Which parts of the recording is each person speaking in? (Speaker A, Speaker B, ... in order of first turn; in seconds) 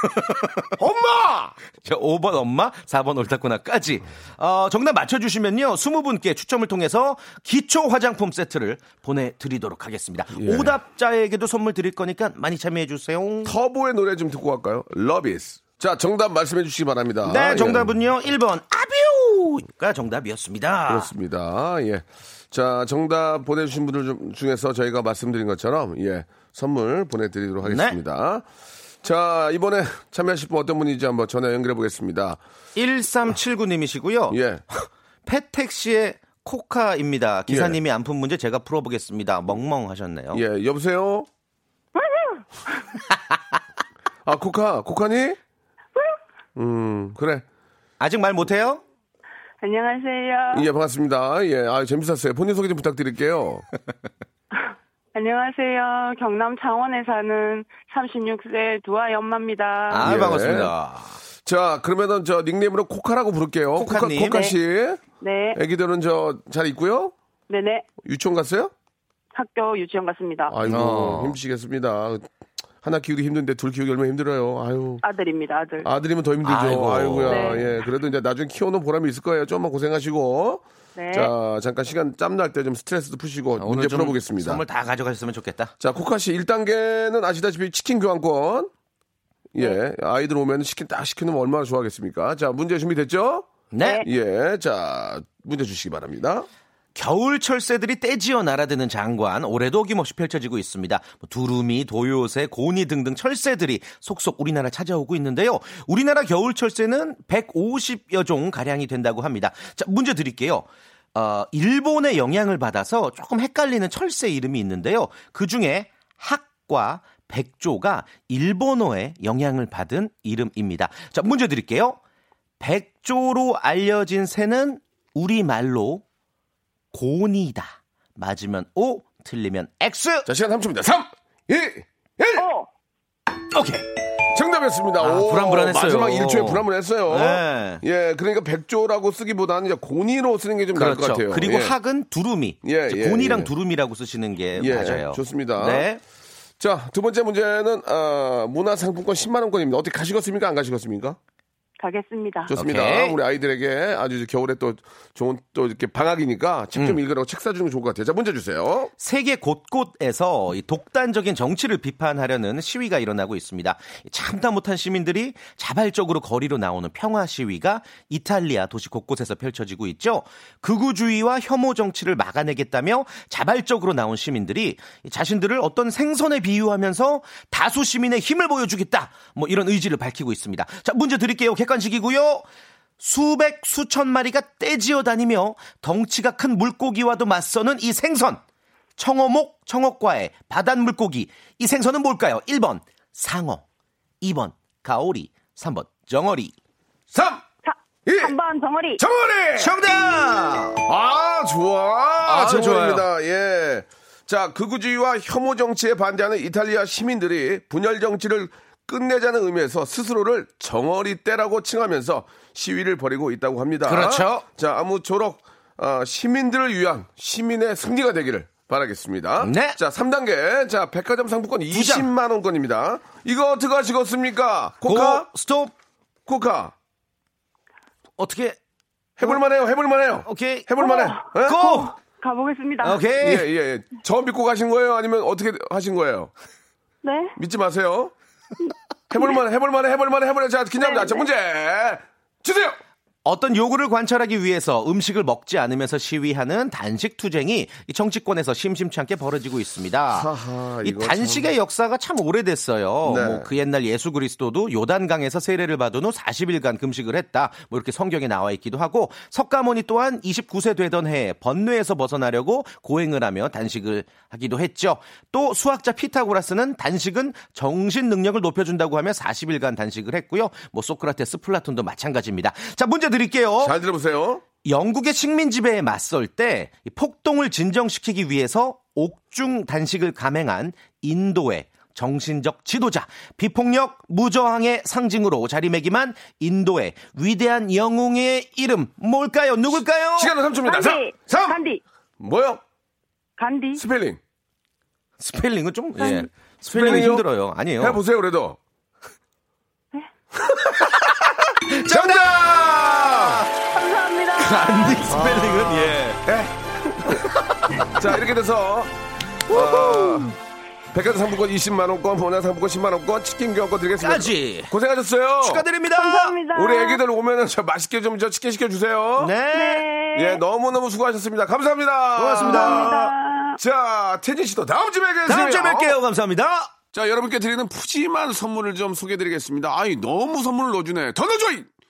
Speaker A: 0.8-1.6, 10.3-10.8, 13.4-18.0, 20.9-28.4, 29.0-32.4, 34.3-34.6, 37.5-37.8, 40.3-41.3, 44.2-45.4, 46.5-47.4, 50.5-53.6, 60.0-60.7, 61.4-65.0, 65.5-67.1, 68.0-68.7, 70.5-72.3, 72.8-75.0, 75.8-84.6, 85.8-88.7, 89.5-93.5, 94.0-96.5, 130.2-132.5, 134.3-141.8, 142.6-143.5, 144.6-145.9, 146.6-151.2, 152.5-158.9, 197.1-197.4, 198.1-198.3, 199.0-199.8, 200.8-225.3, 226.2-226.7, 229.2-231.7, 233.2-236.3, 237.4-238.1, 239.1-242.8, 250.1-251.5, 253.0-253.5, 273.6-274.4, 290.1-291.6, 292.2-292.6, 293.8-294.2, 296.7-297.3, 297.8-298.6, 300.5-301.3, 301.8-303.4, 305.0-307.2, 307.9-308.9, 309.5-310.4, 310.9-315.6, 316.5-319.3, 320.1-323.0, 323.6-326.0, 326.9-331.7
Speaker B: 1.8-13.6, 17.2-21.1, 27.6-28.0, 32.8-40.4, 48.0-48.8, 59.9-61.2, 63.8-64.4, 70.7-71.4, 76.4-77.6, 83.6-85.7, 93.7-94.0, 97.0-122.0, 122.6-126.0, 126.9-130.3, 133.5-133.8, 135.0-137.8, 140.7-146.0, 152.5-153.2, 159.0-182.4, 183.0-188.4, 189.0-193.6, 194.2-196.5, 199.6-200.8, 202.2-203.1, 213.8-214.4, 219.4-219.8, 221.7-222.1, 224.8-225.7, 228.2-228.6, 230.2-231.9, 232.8-233.5, 243.2-250.3, 250.8-273.7, 274.6-290.3, 295.2-298.0, 301.6-303.4, 304.4-306.2, 307.1-307.6, 314.0-314.7, 315.4-316.4, 319.2-319.9, 322.1-323.1, 325.2-326.7
Speaker C: 42.0-42.4, 49.6-50.6, 55.1-60.1, 64.3-64.5, 65.2-65.6, 67.5-67.9, 69.3-70.5, 75.0-75.9, 77.2-77.7, 81.0-81.3, 93.8-94.0, 132.3-132.7, 151.8-152.5, 197.6-199.0, 230.8-233.0, 237.0-237.4, 240.8-241.3, 290.6-291.8, 293.4-293.8, 296.0-296.3, 303.7-304.9, 309.5-310.3, 316.0-317.0, 319.5-320.4, 322.4-323.6